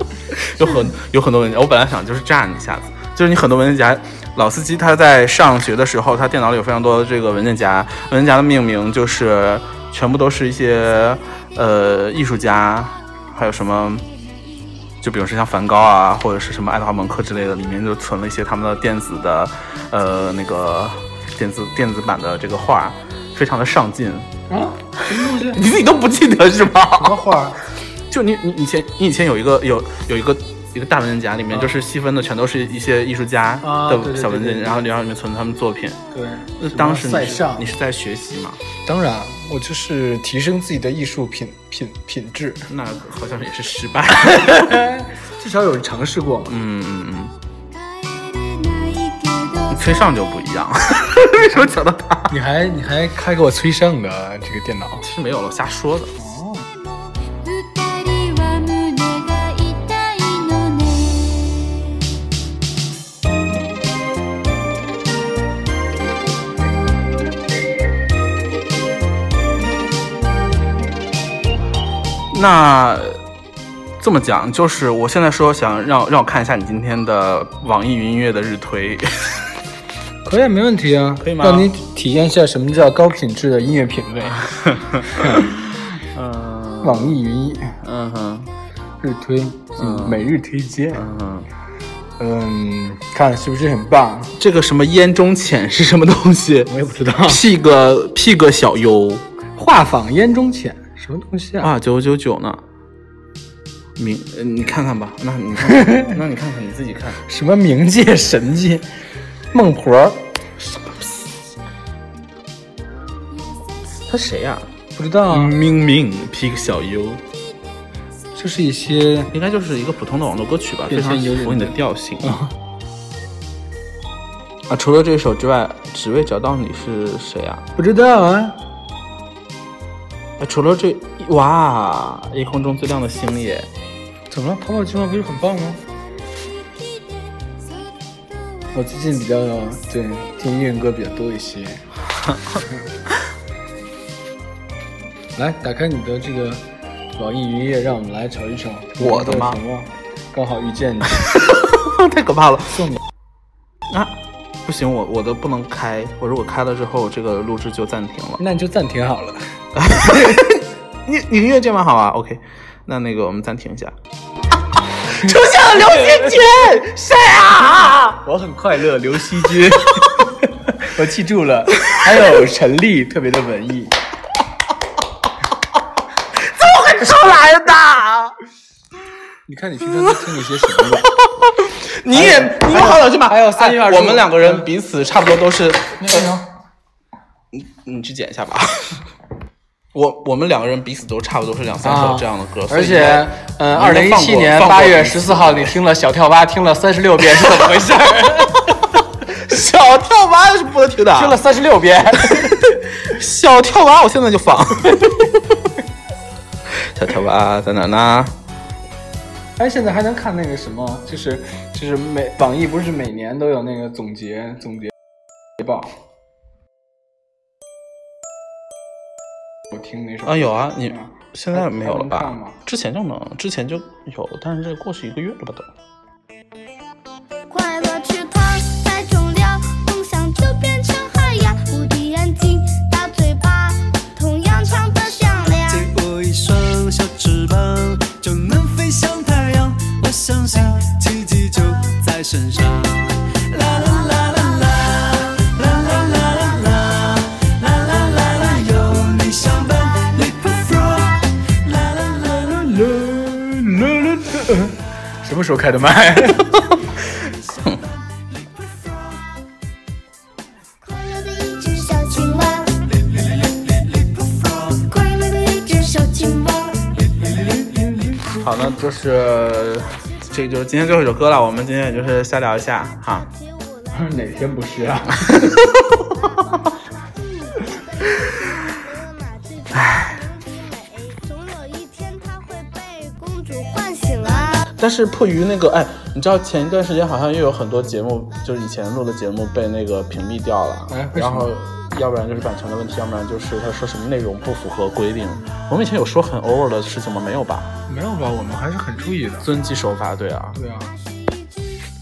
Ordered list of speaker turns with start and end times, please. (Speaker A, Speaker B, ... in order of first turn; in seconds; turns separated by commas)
Speaker A: 0.3-14.1, Speaker A: 15.0-24.3, Speaker B: 24.5-25.6, Speaker A: 25.1-27.2, Speaker B: 26.9-27.6, Speaker A: 28.1-36.0, Speaker B: 33.6-34.9, Speaker B: 36.1-37.7, Speaker A: 36.6-38.6, Speaker B: 38.8-42.7, Speaker A: 42.7-44.9, Speaker B: 44.2-46.6, Speaker A: 46.5-47.3, Speaker C: 47.7-50.1, Speaker A: 49.7-52.3, Speaker B: 52.3-55.0, Speaker A: 55.0-56.1, Speaker B: 56.1-56.7, Speaker C: 57.3-61.9, Speaker A: 72.3-73.2, Speaker A: 74.0-79.4, Speaker B: 80.2-84.5, Speaker A: 81.2-81.7, Speaker A: 84.4-87.2, Speaker B: 85.1-85.5, Speaker B: 86.8-87.8, Speaker A: 87.8-88.5, Speaker B: 89.0-91.0, Speaker A: 89.8-90.3, Speaker A: 90.9-91.5, Speaker B: 92.2-94.3, Speaker A: 94.4-96.7, Speaker B: 96.7-97.4, Speaker A: 97.2-99.2, Speaker B: 99.5-101.7, Speaker A: 101.6-102.6, Speaker A: 104.0-107.2, Speaker B: 105.7-106.1, Speaker B: 107.2-108.9, Speaker B: 109.5-110.2, Speaker A: 110.6-111.3, Speaker A: 114.1-114.7, Speaker B: 115.0-115.5, Speaker A: 115.3-117.2, Speaker B: 118.3-119.3, Speaker A: 119.3-122.3, Speaker B: 120.9-122.5, Speaker A: 124.7-127.7, Speaker B: 127.8-128.6, Speaker A: 130.4-133.7, Speaker B: 134.3-135.8, Speaker B: 138.7-141.8, Speaker A: 142.2-142.6, Speaker B: 145.3-146.6, Speaker B: 147.2-151.3, Speaker A: 149.0-149.6, Speaker A: 151.1-152.9, Speaker B: 152.7-153.0, Speaker A: 153.9-158.4, Speaker B: 158.4-159.5, Speaker A: 159.8-163.9, Speaker A: 165.1-168.2, Speaker B: 168.2-173.9, Speaker A: 176.3-178.3, Speaker B: 179.5-181.1, Speaker A: 180.2-186.3, Speaker B: 182.1-184.7, Speaker B: 186.0-186.4, Speaker A: 187.5-189.0, Speaker A: 189.9-195.8, Speaker B: 191.8-198.8, Speaker A: 197.4-197.6, Speaker A: 199.2-201.4, Speaker B: 201.1-202.7, Speaker A: 202.2-205.4, Speaker A: 206.7-208.3, Speaker B: 209.6-214.9, Speaker B: 215.6-215.9, Speaker B: 219.7-222.6, Speaker A: 220.2-225.7, Speaker C: 227.5-235.9, Speaker D: 235.7-252.7, Speaker B: 253.2-256.7, Speaker C: 260.8-262.9, Speaker D: 263.1-264.8, Speaker C: 264.8-266.9, Speaker D: 266.9-267.8, Speaker A: 268.4-273.2, Speaker C: 273.0-274.2, Speaker B: 273.9-275.6, Speaker A: 275.3-275.9, Speaker C: 275.6-284.7, Speaker A: 279.7-280.2, Speaker A: 284.8-297.7, Speaker B: 290.9-291.5, Speaker B: 297.9-299.5, Speaker A: 299.4-300.6, Speaker B: 300.5-300.9, Speaker C: 301.3-301.6